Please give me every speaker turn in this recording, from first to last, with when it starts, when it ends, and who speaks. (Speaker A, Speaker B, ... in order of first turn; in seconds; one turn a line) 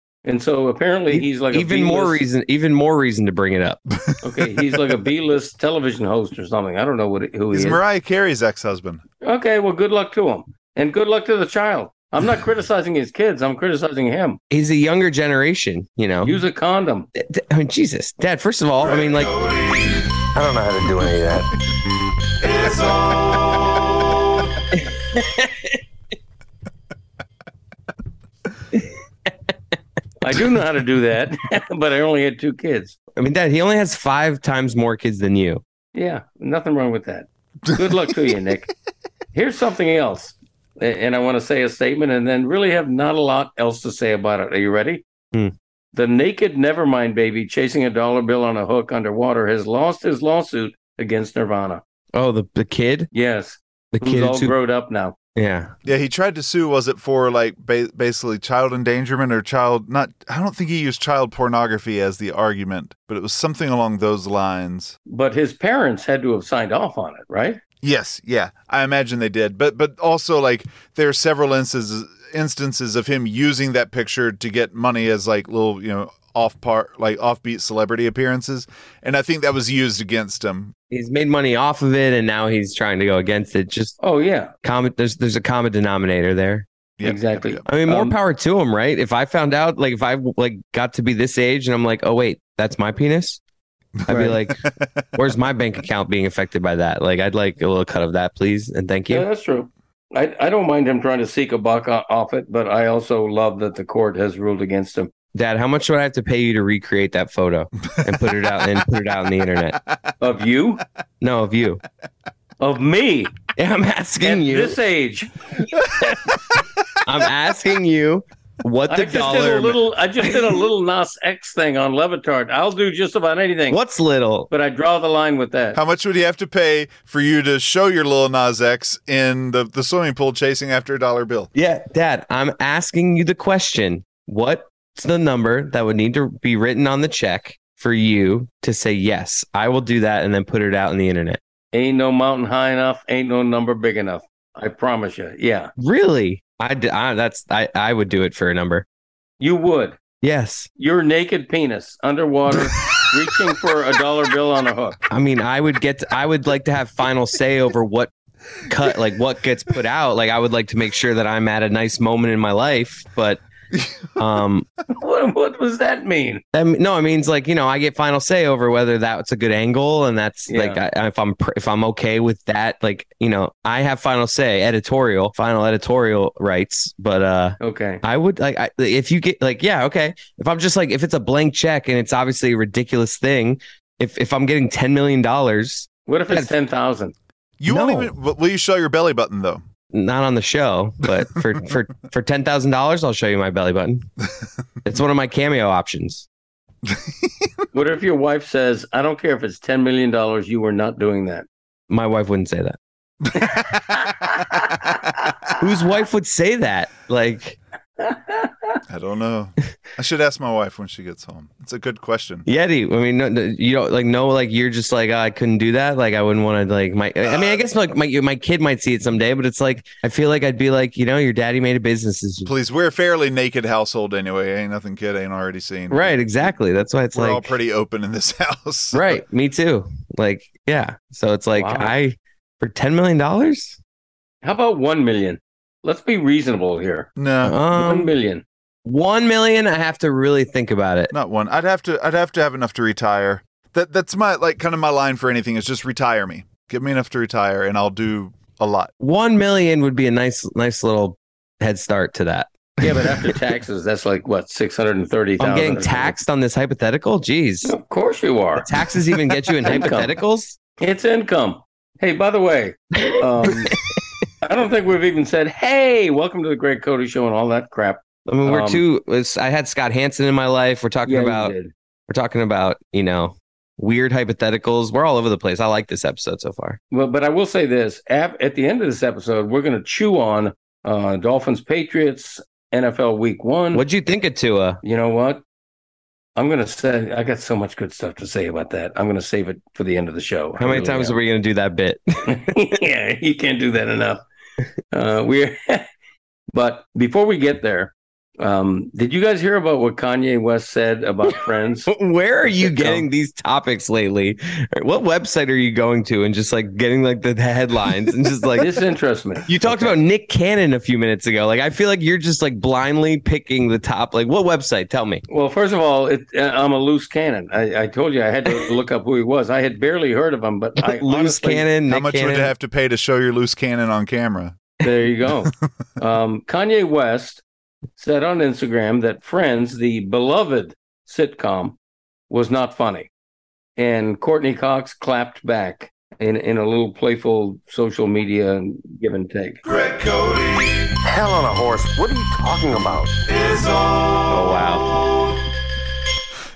Speaker A: 0.2-2.2
Speaker B: 1.1-3.8
Speaker C: 4.1-4.7
Speaker A: 4.2-7.8
Speaker C: 7.5-9.0
Speaker A: 9.2-14.4
Speaker B: 14.5-16.4
Speaker A: 16.2-17.1
Speaker B: 17.2-19.4
Speaker B: 20.4-21.5
Speaker C: 22.5-23.6
Speaker B: 24.7-25.8
Speaker A: 30.2-33.0
Speaker B: 33.2-35.6
Speaker A: 35.9-38.7
Speaker A: 39.3-45.0
Speaker A: 45.9-51.8
Speaker B: 52.1-53.1
Speaker A: 53.1-55.1
Speaker B: 53.9-54.6
Speaker B: 55.4-55.7
Speaker C: 55.9-65.0
Speaker A: 65.1-67.6
Speaker C: 67.8-80.7
Speaker B: 80.9-83.9
Speaker A: 84.0-84.5
Speaker B: 84.6-86.7
Speaker C: 87.0-87.7
Speaker A: 87.0-88.2
Speaker B: 87.7-93.4
Speaker C: 94.0-95.1
Speaker B: 94.1-94.6
Speaker A: 94.1-94.4
Speaker B: 95.2-99.2
Speaker A: 99.1-105.1
Speaker B: 105.3-109.8
Speaker A: 110.2-110.8
Speaker B: 111.2-111.8
Speaker A: 112.6-113.3
Speaker B: 113.5-114.8
Speaker A: 114.2-116.4
Speaker B: 117.0-119.8
Speaker A: 118.9-123.8
Speaker B: 123.7-124.5
Speaker A: 124.5-125.8
Speaker C: 125.7-131.5
Speaker B: 131.6-141.4
Speaker A: 141.7-145.7
Speaker B: 145.8-148.8
Speaker A: 149.4-150.0
Speaker B: 150.2-150.7
Speaker A: 150.8-155.0
Speaker B: 155.1-158.1
Speaker B: 158.7-163.4
Speaker C: 163.7-164.1
Speaker B: 164.2-164.7
Speaker A: 164.9-166.4
Speaker B: 166.5-186.5
Speaker A: 170.5-170.8
Speaker A: 177.6-178.0
Speaker A: 186.1-187.1
Speaker C: 187.6-189.6
Speaker B: 187.7-188.1
Speaker B: 189.9-194.1
Speaker B: 194.8-196.3
Speaker C: 196.8-197.6
Speaker A: 197.7-201.5
Speaker B: 201.9-202.8
Speaker C: 203.2-203.8
Speaker A: 203.4-205.0
Speaker B: 205.6-207.6
Speaker A: 208.0-208.8
Speaker C: 208.9-212.5
Speaker B: 212.5-222.5
Speaker C: 217.3-217.6
Speaker C: 222.5-226.2
Speaker B: 225.9-227.6
Speaker C: 227.1-229.2
Speaker B: 228.9-233.8
Speaker A: 231.6-231.9
Speaker A: 234.4-237.1
Speaker C: 237.2-237.6
Speaker B: 237.4-238.1
Speaker A: 237.7-238.4
Speaker B: 238.8-241.1
Speaker C: 241.1-248.9
Speaker B: 249.0-253.3
Speaker A: 252.8-256.2
Speaker B: 255.4-257.7
Speaker A: 257.6-258.7
Speaker B: 258.6-260.6
Speaker A: 259.7-260.1
Speaker A: 260.8-263.8
Speaker A: 264.4-268.8
Speaker B: 268.3-271.5
Speaker A: 271.1-271.7
Speaker B: 272.1-276.8
Speaker A: 276.9-283.8
Speaker B: 283.7-284.8
Speaker A: 284.8-285.4
Speaker A: 286.4-291.2
Speaker B: 290.6-292.5
Speaker A: 292.3-294.2
Speaker A: 294.9-295.9
Speaker A: 296.5-301.9
Speaker B: 301.9-308.7
Speaker A: 302.5-303.1
Speaker A: 308.6-310.0
Speaker B: 309.5-315.2
Speaker A: 315.3-321.7
Speaker B: 320.8-322.5
Speaker C: 321.9-324.6
Speaker A: 324.8-327.4
Speaker A: 328.0-331.8
Speaker A: 332.3-333.1
Speaker A: 333.8-339.6
Speaker C: 339.7-340.9
Speaker D: 341.0-343.3
Speaker B: 344.3-345.0